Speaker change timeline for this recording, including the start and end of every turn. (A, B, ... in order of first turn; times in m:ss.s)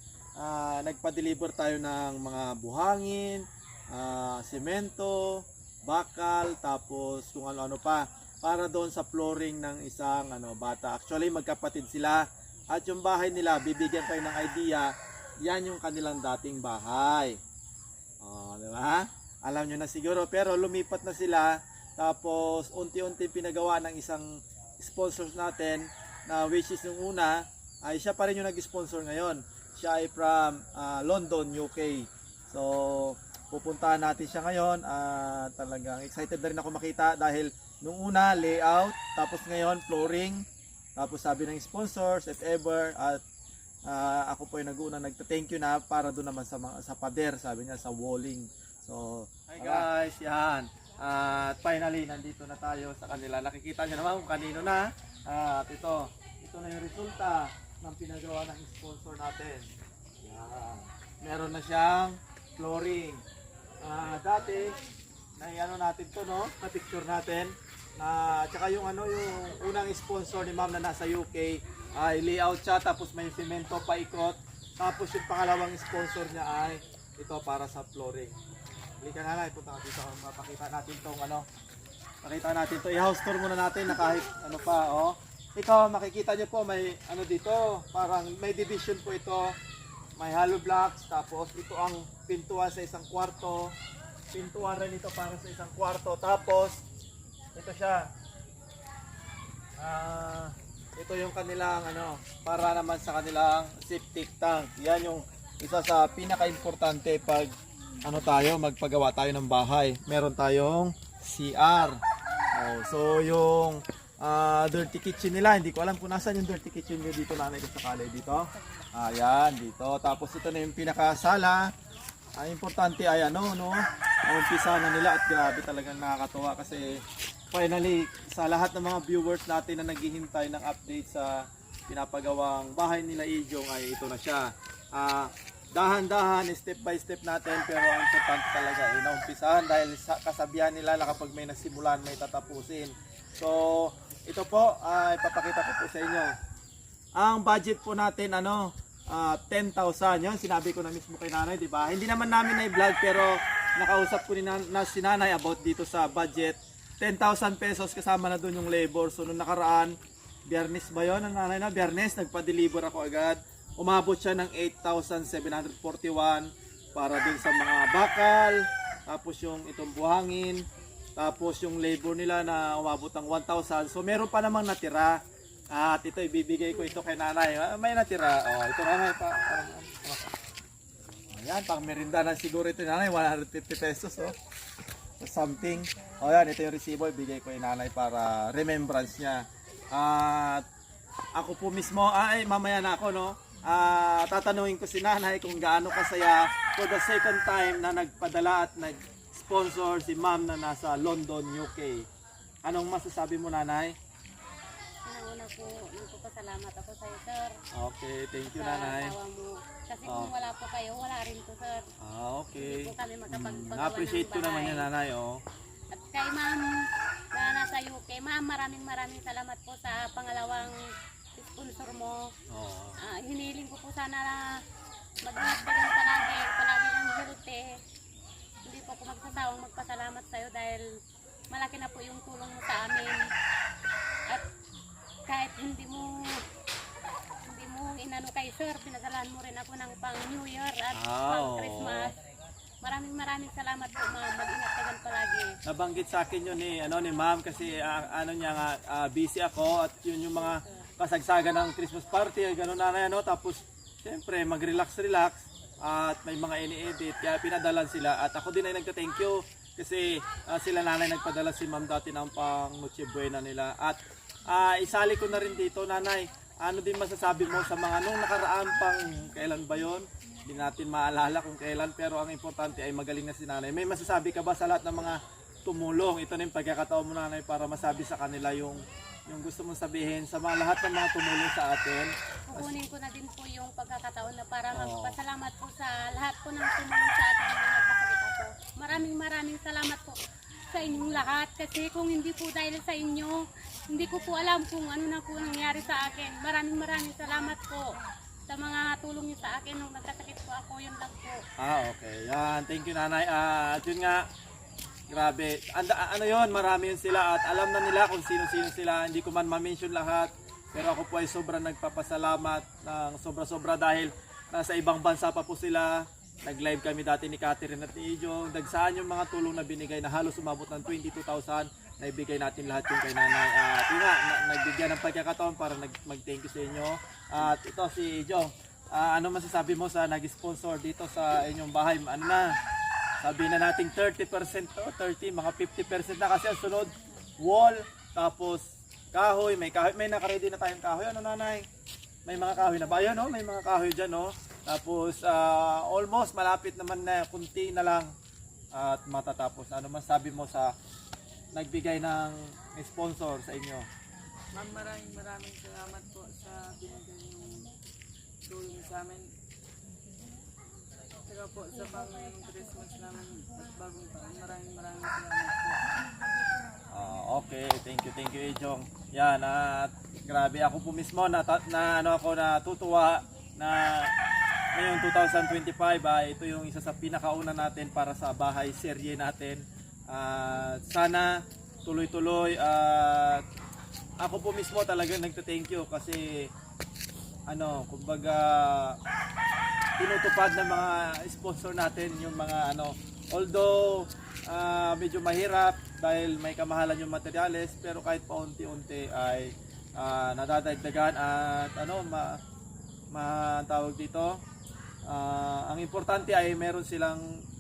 0:00.4-0:17.4 A
0:18.2-0:40.4 A
0:41.0-0:43.2 A
0:43.8-0:59.7 A
1:00.2-1:03.2 A
1:03.8-1:04.8 A
1:05.4-1:18.4 A
1:19.0-1:21.4 A
1:22.2-1:29.6 A
1:30.2-1:33.8 A
1:34.3-1:36.8 A
1:37.5-1:38.1 A
1:39.8-1:47.5 A
1:48.0-1:52.0 A
1:52.5-2:01.7 A
2:02.4-2:07.0 A
2:07.5-2:26.3 A
2:27.2-2:40.0 A
2:40.5-2:50.6 A
2:51.2-2:55.2 A
2:55.7-3:00.3 A
3:01.3-3:04.4 A
3:05.2-3:10.6 A
3:11.3-3:22.1 A
3:22.6-3:24.0 A
3:25.1-3:27.5 B
3:27.7-3:29.1 A
3:28.5-3:31.8 B
3:30.0-3:30.3 A
3:32.0-3:35.4 A
3:32.6-3:34.9 B
3:35.9-3:36.6 B
3:37.3-3:40.7 B
3:41.4-3:42.3 B
3:42.5-3:43.0 A
3:43.0-3:44.4 B
3:45.2-3:47.7 B
3:48.6-3:50.8 B
3:51.5-3:53.2 B
3:55.3-3:56.4 B
3:57.4-4:02.2 B
4:00.9-4:02.1 A
4:02.8-4:05.5 B
4:05.6-4:42.7 A
4:42.5-4:50.1 B
4:44.7-4:45.2 A
4:50.7-4:53.3 B
4:53.9-4:57.8 B
4:58.5-5:01.4 B
5:01.6-5:04.2 A
5:05.1-5:32.6 A
5:33.2-5:41.7 A
5:42.3-5:48.1 A
5:48.7-5:50.7 A
5:51.5-5:53.9 A
5:54.5-5:57.8 C
5:58.4-5:59.3 C
6:01.3-6:05.8 C
6:06.9-6:14.1 A
6:14.7-6:21.3 A
6:21.8-6:23.4 A
6:24.2-6:26.5 A
6:27.5-6:29.0 A
6:30.0-6:42.4 A
6:43.1-6:44.4 A
6:45.1-6:47.2 A